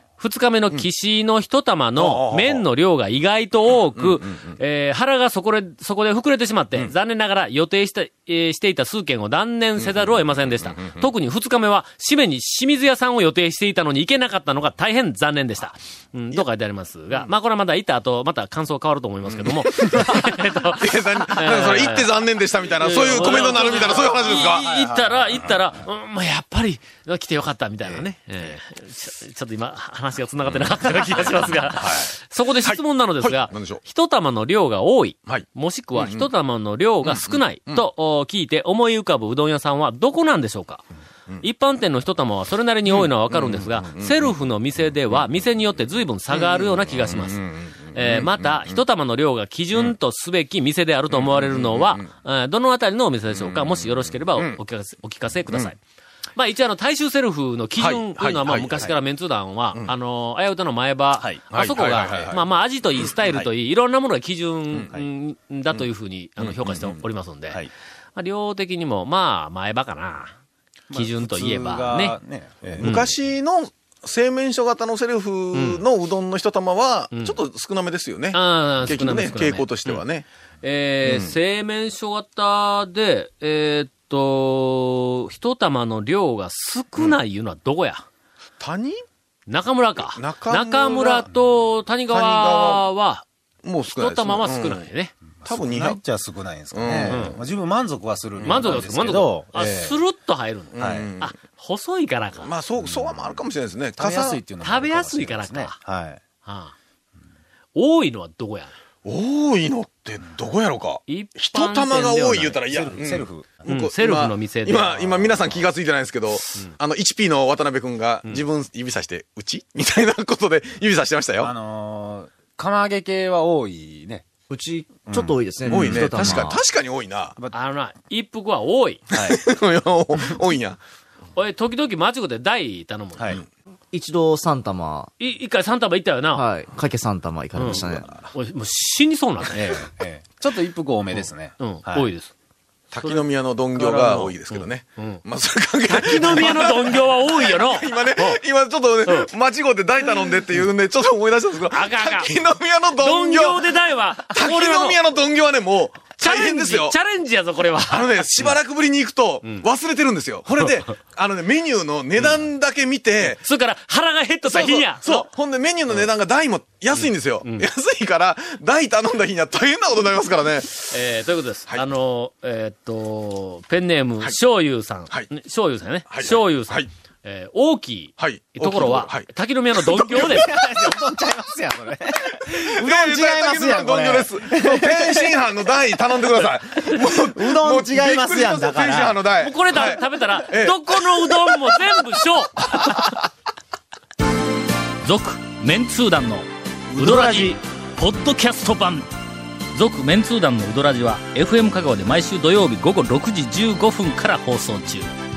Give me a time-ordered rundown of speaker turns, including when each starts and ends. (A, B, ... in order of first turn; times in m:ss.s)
0:00.2-0:22.1 A
0:02.0-0:02.6 B
0:04.0-0:04.6 B
0:09.8-0:11.1 B
0:19.3-0:24.7 B
0:22.8-0:40.8 A
0:23.2-0:25.6 C
0:27.8-0:28.1 C
0:31.8-0:32.1 B
0:32.6-0:33.8 B
0:35.3-0:36.3 B
0:37.0-0:37.8 B
0:41.4-0:55.8 A
0:42.9-0:44.3 B
0:46.3-0:48.8 B
0:51.1-0:52.1 B
0:53.3-0:54.6 B
0:56.4-1:10.3 A
0:57.8-0:58.9 B
1:01.2-1:02.4 C
1:01.5-1:02.4 B
1:03.2-1:03.5 C
1:06.4-1:07.0 B
1:10.9-1:13.0 C
1:10.9-1:12.2 A
1:12.8-1:20.2 B
1:12.8-1:13.1 A
1:15.5-1:15.8 A
1:17.1-1:17.4 A
1:18.3-1:20.0 A
1:20.6-1:28.0 A
1:21.0-1:21.3 B
1:28.6-1:29.0 B
1:29.5-1:33.3 A
1:30.2-1:31.3 B
1:32.1-1:32.8 B
1:33.6-1:34.8 B
1:34.0-1:35.1 A
1:35.4-1:40.0 C
1:35.5-1:36.0 B
1:36.7-1:37.4 B
1:37.1-1:37.4 A
1:38.4-1:38.8 B
1:38.5-1:42.5 A
1:40.7-1:41.3 B
1:40.8-1:41.1 C
1:42.4-1:44.4 B
1:44.0-1:46.2 C
1:44.6-1:45.8 A
1:46.4-1:46.8 A
1:47.8-1:48.7 A
1:49.0-2:01.5 B
1:51.1-1:52.6 A
1:52.2-1:53.7 C
1:53.7-1:55.3 A
1:55.3-1:55.5 C
2:01.4-2:04.3 C
2:04.5-2:06.6 D
2:05.1-2:06.6 C
2:05.7-2:07.4 B
2:07.5-2:09.0 A
2:09.1-2:09.4 C
2:09.1-2:10.8 B
2:11.4-2:13.4 A
2:13.9-2:15.1 D
2:15.2-2:16.4 A
2:16.4-2:18.1 D
2:17.6-2:19.8 A
2:17.6-2:18.2 B
2:19.5-2:22.1 C
2:21.2-2:22.3 A
2:22.9-2:33.6 B
2:23.0-2:25.2 A
2:25.9-2:28.4 A
2:31.7-2:32.3 A
2:33.0-2:35.0 A
2:34.3-2:37.0 B
2:36.2-2:38.5 A
2:37.9-2:43.4 B
2:43.2-2:45.3 A
2:44.4-2:50.9 B
2:47.0-2:47.7 A
2:50.9-3:00.5 A
2:56.1-2:56.9 B
2:58.2-2:59.3 B
2:59.9-3:00.4 B
2:59.9-3:05.4 C
3:02.4-3:11.8 B
3:06.8-3:09.2 C
3:09.4-3:13.0 A
3:15.1-3:16.5 E
3:17.0-3:17.6 C
3:17.0-3:19.1 E
3:17.1-3:17.5 A
3:19.8-3:25.1 E